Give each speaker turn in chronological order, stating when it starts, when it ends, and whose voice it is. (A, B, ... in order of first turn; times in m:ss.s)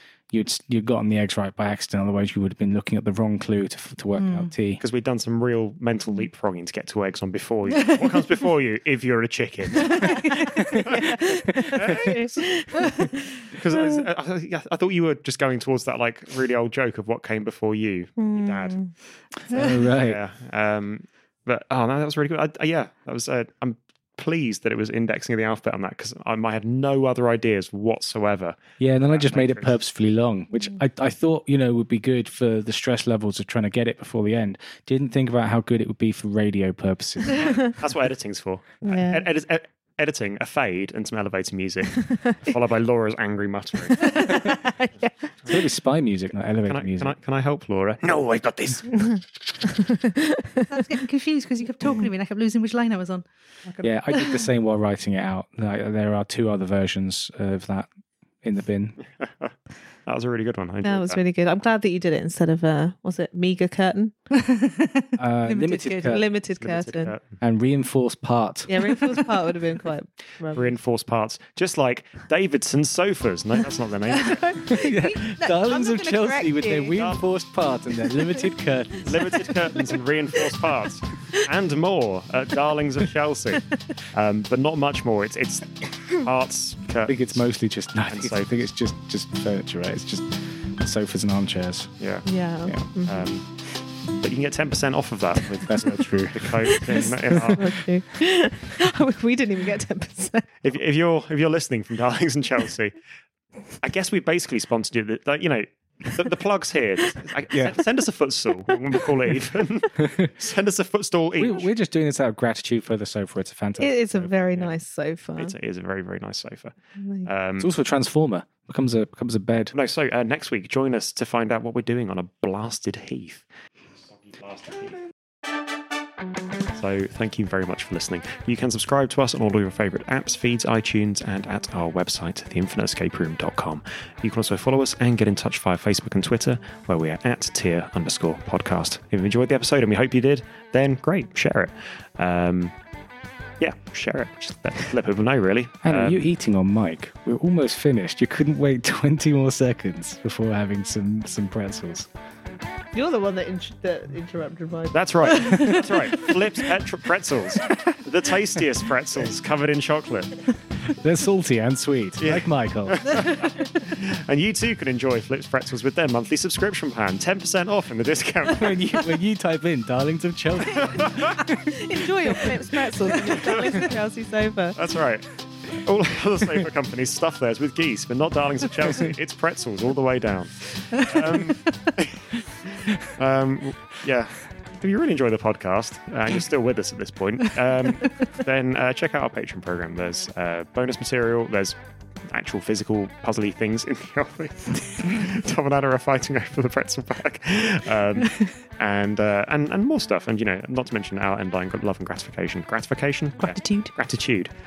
0:00.3-0:04.8 A
0:04.8-0:11.1 B
0:10.0-0:13.8 C
0:11.7-0:12.3 B
0:13.5-0:18.8 B
0:18.2-0:18.9 C
0:19.5-0:20.2 A
0:19.5-0:29.8 B
0:28.8-0:37.5 A
0:37.3-0:44.4 B
0:38.8-0:39.3 C
0:44.0-0:45.1 C
0:45.5-0:47.2 A
0:46.7-0:49.2 B
0:49.8-0:50.7 C
0:50.7-0:53.3 D
0:53.8-0:57.9 A
0:58.4-0:59.0 A
1:00.1-1:01.2 B
1:00.8-1:04.1 C
1:04.3-1:06.2 D
1:05.2-1:06.2 A
1:06.0-1:07.2 C
1:06.6-1:07.2 B
1:07.4-1:09.2 A
1:08.7-1:10.7 C
1:10.6-1:14.7 B
1:14.2-1:17.0 C
1:14.7-1:19.3 A
1:19.0-1:27.4 B
1:27.1-1:31.9 A
1:28.1-1:28.5 B
1:32.0-1:32.3 B
1:32.2-1:33.1 C
1:32.9-1:33.5 B
1:34.2-1:37.8 B
1:35.6-1:37.6 A
1:36.7-1:40.5 C
1:40.6-1:42.9 B
1:43.8-1:51.7 B
1:50.0-1:50.3 A
1:51.4-1:54.3 A
1:53.8-1:55.5 C
1:55.4-1:56.7 B
1:57.0-1:57.3 C
1:57.2-1:57.7 B
1:57.6-1:59.7 A
1:59.7-2:03.5 B
2:04.3-2:05.0 B
2:06.7-2:22.7 B
2:23.6-2:26.2 B
2:25.8-2:32.1 A
2:32.9-2:36.3 C
2:34.9-2:40.4 B
2:40.9-2:43.4 A
2:42.2-2:48.8 B
2:48.5-2:52.5 A
2:50.8-2:51.1 B
2:51.7-2:54.8 C
2:54.8-3:02.2 B
3:02.8-3:11.8 B
3:12.3-3:24.5 B
3:23.4-3:23.9 D